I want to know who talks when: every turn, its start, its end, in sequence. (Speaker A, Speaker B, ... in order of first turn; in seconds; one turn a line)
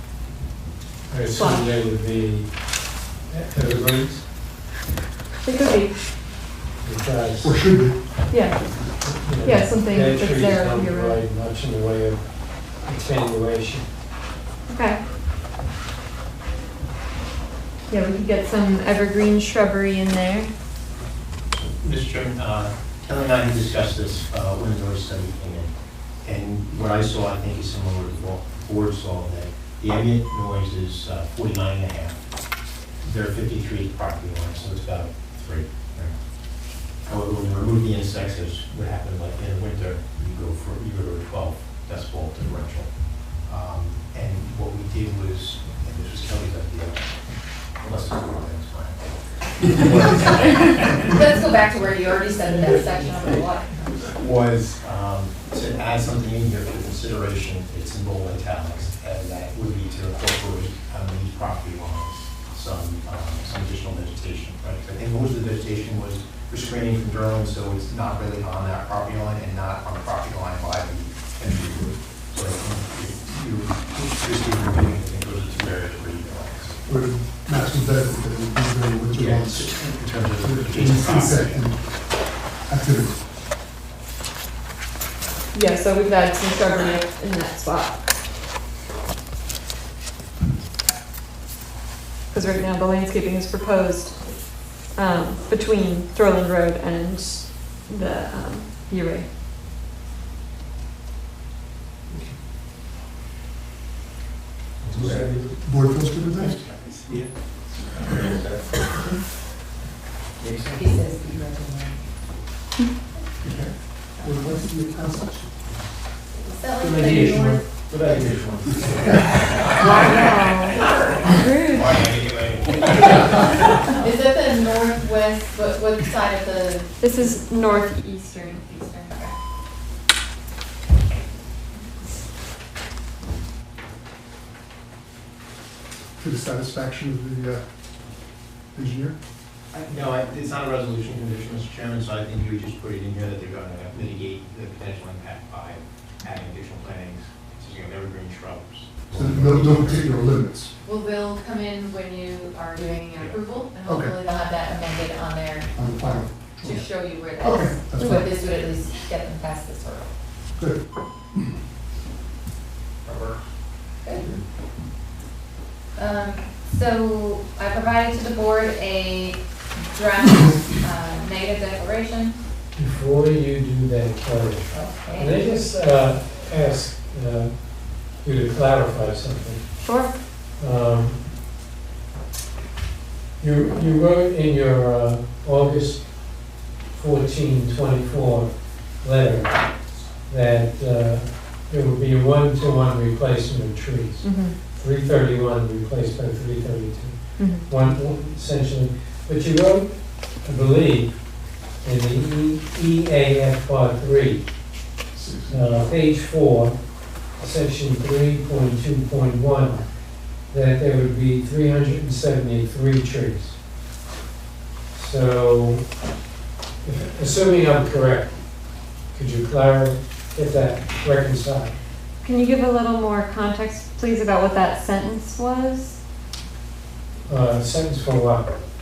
Speaker A: 1.1-2.7
Speaker B: 1.3-1.7
Speaker A: 3.3-4.2
Speaker B: 5.4-6.0
Speaker A: 6.8-7.6
Speaker C: 7.4-8.8
Speaker B: 8.3-8.7
Speaker A: 9.0-13.9
Speaker B: 9.4-11.2
Speaker B: 14.7-15.0
Speaker B: 17.9-20.5
Speaker D: 21.5-25.7
Speaker D: 26.2-32.2
Speaker D: 33.0-36.1
Speaker D: 37.0-42.9
Speaker D: 43.4-47.1
Speaker D: 47.8-49.0
Speaker D: 49.6-51.4
Speaker E: 51.1-54.1
Speaker D: 52.6-53.4
Speaker D: 54.1-76.8
Speaker C: 76.8-79.8
Speaker D: 79.1-81.7
Speaker C: 80.4-81.8
Speaker C: 82.7-83.2
Speaker B: 85.5-88.0
Speaker B: 92.3-99.3
Speaker D: 104.8-105.5
Speaker C: 104.9-106.6
Speaker D: 106.2-107.3
Speaker D: 107.9-108.9
Speaker D: 110.4-111.0
Speaker E: 110.7-112.1
Speaker C: 113.4-115.6
Speaker E: 114.2-114.5
Speaker E: 116.3-119.0
Speaker D: 116.8-123.8
Speaker C: 119.0-119.5
Speaker B: 119.8-121.9
Speaker E: 120.8-121.2
Speaker E: 123.9-129.3
Speaker B: 127.0-128.4
Speaker C: 136.2-137.6
Speaker C: 138.7-139.2
Speaker D: 139.7-150.1
Speaker C: 149.1-150.7
Speaker E: 150.8-155.8
Speaker D: 153.1-153.4
Speaker C: 153.8-154.2
Speaker C: 155.7-158.3
Speaker E: 156.6-160.1
Speaker C: 160.6-161.6
Speaker C: 163.1-163.4
Speaker E: 163.9-164.2
Speaker C: 164.2-164.4
Speaker E: 165.9-172.3
Speaker A: 172.7-179.9
Speaker E: 174.7-175.4
Speaker B: 179.8-180.1
Speaker A: 180.5-181.2
Speaker A: 183.4-204.5
Speaker B: 194.2-194.6
Speaker B: 197.4-197.7
Speaker C: 205.1-205.7
Speaker A: 205.5-209.9
Speaker A: 210.4-213.6
Speaker A: 214.9-215.9
Speaker A: 216.8-221.8
Speaker B: 222.2-226.0
Speaker A: 227.2-228.5